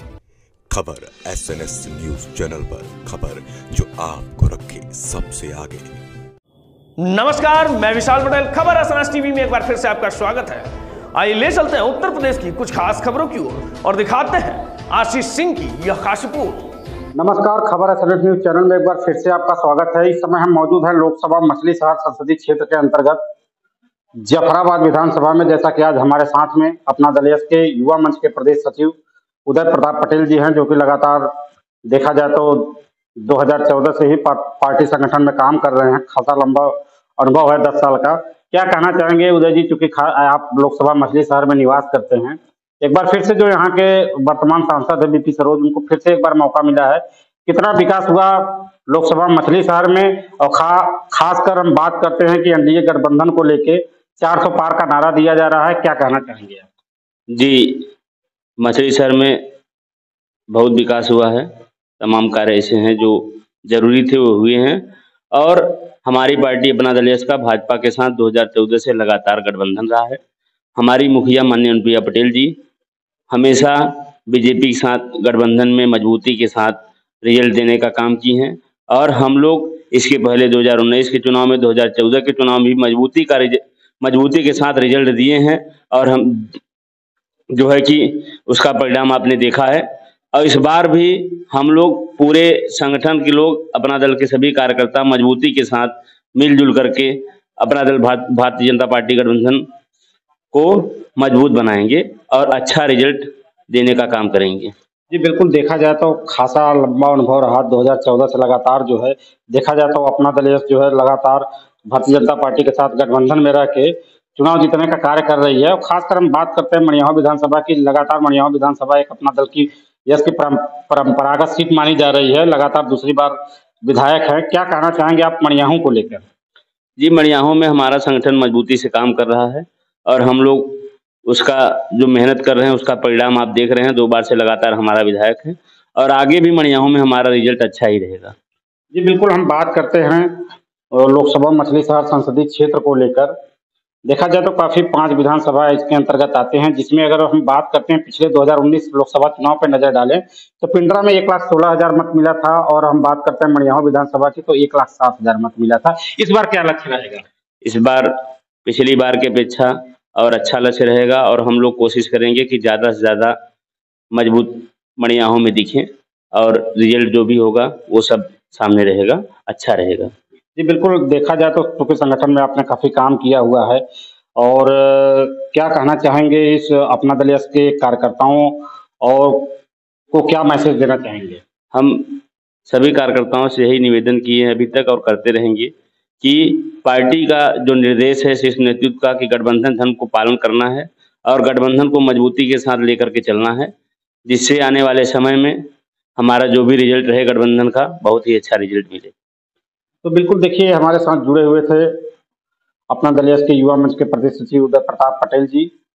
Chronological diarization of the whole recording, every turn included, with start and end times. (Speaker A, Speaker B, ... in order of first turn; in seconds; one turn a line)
Speaker A: 0.7-6.0
Speaker B: 7.0-16.7
Speaker C: 17.1-23.2
Speaker C: 24.2-31.3
Speaker C: 31.9-56.6
Speaker D: 57.3-57.9
Speaker D: 58.6-59.4
Speaker D: 60.5-70.2
Speaker D: 70.8-72.6
Speaker D: 73.3-86.6
Speaker D: 87.5-99.7
Speaker D: 100.5-104.7
Speaker C: 105.1-126.2
Speaker D: 127.0-138.3
Speaker C: 138.9-143.3
Speaker C: 144.1-157.2
Speaker D: 157.6-163.3
Speaker D: 164.1-170.1
Speaker C: 170.6-173.8
Speaker C: 174.3-179.6
Speaker C: 180.1-181.4
Speaker D: 181.7-193.7
Speaker D: 194.3-199.1
Speaker C: 200.0-201.9
Speaker C: 202.9-205.7